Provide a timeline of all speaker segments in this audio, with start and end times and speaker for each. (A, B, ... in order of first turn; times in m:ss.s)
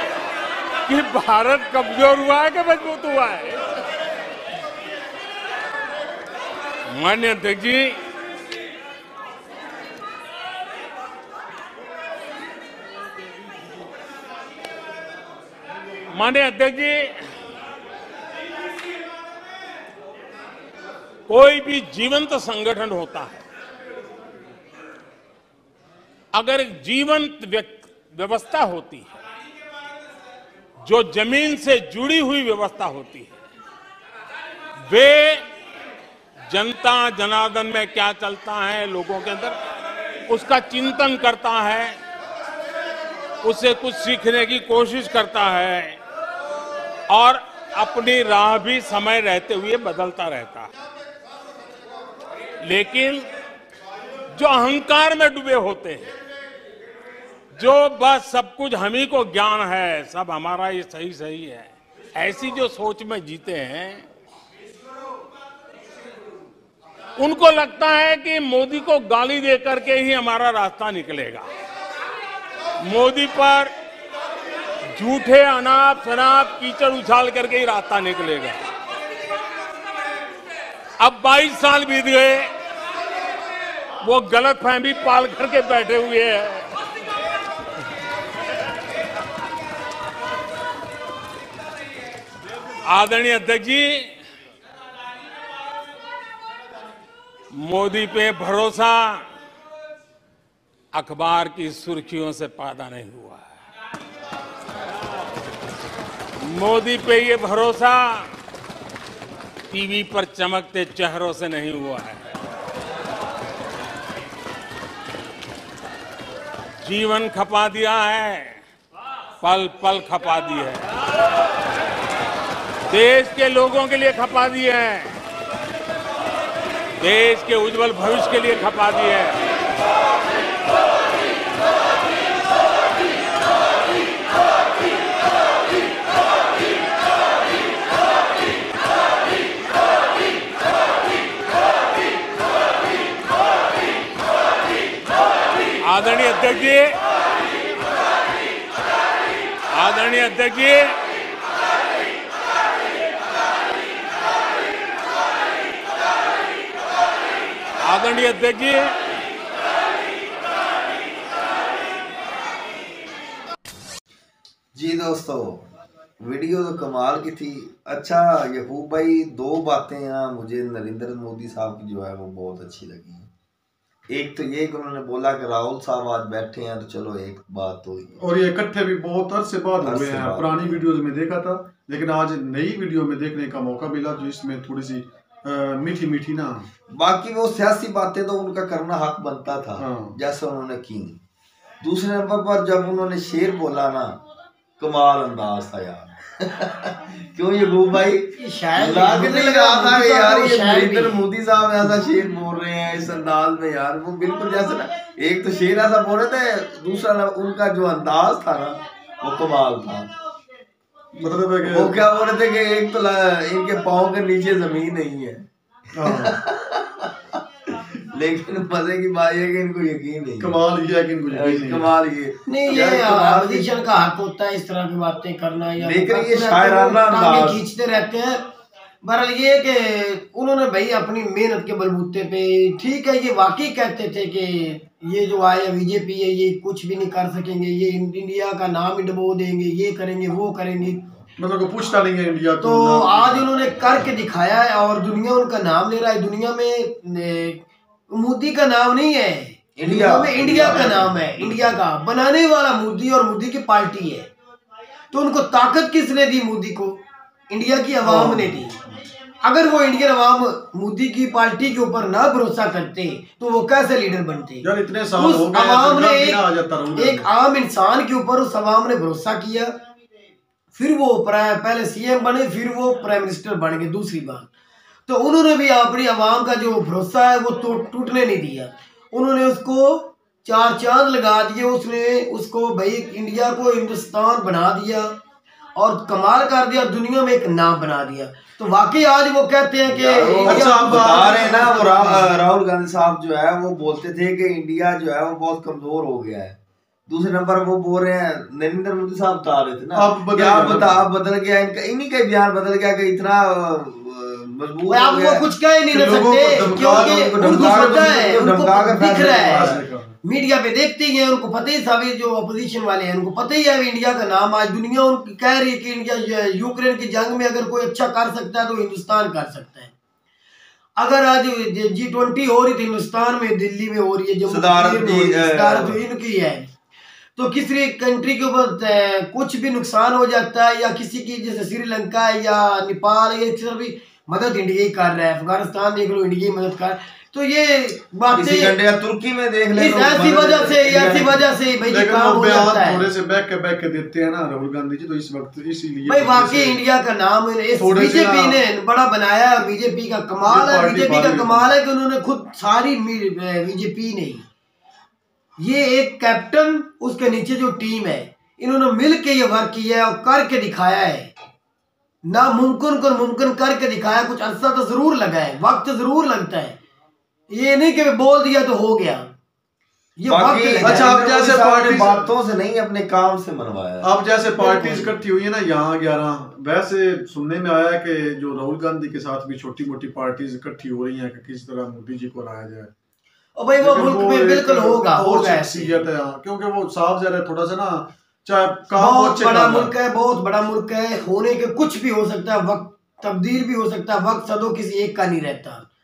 0:00.8-0:03.6 A
0:06.9-0:08.0 A
0:16.1-0:17.2 A
0:21.3-0:23.4 A
0:26.3-0:29.1 A
0:30.8-0:33.3 A
0:34.9-0:35.4 A
0:36.5-0:39.6 A
0:40.3-0:42.0 A
0:43.4-0:46.0 A
0:47.1-0:50.7 A
0:52.6-0:53.2 A
0:54.3-0:56.1 A
0:57.5-1:04.1 A
1:07.2-1:11.5 A
1:12.8-1:13.7 A
1:14.9-1:18.6 A
1:21.0-1:22.5 A
1:24.0-1:26.7 A
1:32.8-1:34.1 A
1:37.5-1:39.2 A
1:40.9-1:43.5 A
1:46.4-1:48.3 A
1:49.7-1:52.2 A
1:56.8-1:58.6 A
1:59.4-2:00.8 A
2:02.9-2:05.2 A
2:07.0-2:09.4 A
2:25.8-2:26.9 A
2:29.7-2:30.9 A
2:37.8-2:38.9 A
2:44.7-2:45.6 B
2:46.2-2:53.3 B
2:54.1-2:58.2 B
2:58.2-3:06.7 C
2:59.8-3:00.8 B
3:06.9-3:11.2 B
3:09.8-3:10.2 C
3:11.8-3:14.2 B
3:14.8-3:30.1 B
3:18.4-3:21.2 D
3:31.1-3:32.0 C
3:31.6-3:35.4 B
3:35.9-3:36.4 C
3:36.0-3:37.3 B
3:38.1-3:40.6 B
3:40.4-3:41.9 C
3:41.3-3:43.7 B
3:42.5-3:48.4 D
3:45.8-3:47.6 B
3:49.0-4:01.0 D
4:01.4-4:03.5 C
4:02.6-4:14.3 D
4:09.8-4:11.0 B
4:10.6-4:11.8 C
4:15.1-4:17.0 D
4:17.5-4:18.8 D
4:18.0-4:18.6 C
4:19.4-4:26.4 D
4:24.6-4:27.3 C
4:26.9-4:29.7 D
4:30.7-4:34.5 D
4:35.1-4:45.1 D
4:45.8-4:51.4 D
4:49.9-4:56.6 B
4:50.4-4:52.3 C
4:57.1-5:05.4 B
4:59.9-5:01.0 C
5:04.9-5:19.9 D
5:05.9-5:07.3 C
5:06.9-5:09.8 B
5:09.5-5:10.2 C
5:21.0-5:26.7 D
5:24.5-5:26.0 B
5:27.4-5:38.8 D
5:38.3-5:41.5 B
5:39.7-5:43.1 D
5:41.8-5:46.8 C
5:46.0-5:54.4 D
5:47.8-5:48.6 C
5:50.4-5:51.7 C
5:55.6-6:01.3 D
6:02.2-6:06.8 D
6:07.5-6:09.3 D
6:10.2-6:11.2 D
6:10.3-6:15.1 B
6:10.8-6:12.3 C
6:14.0-6:22.9 C
6:23.6-6:26.1 D
6:23.8-6:29.9 C
6:28.9-6:35.8 D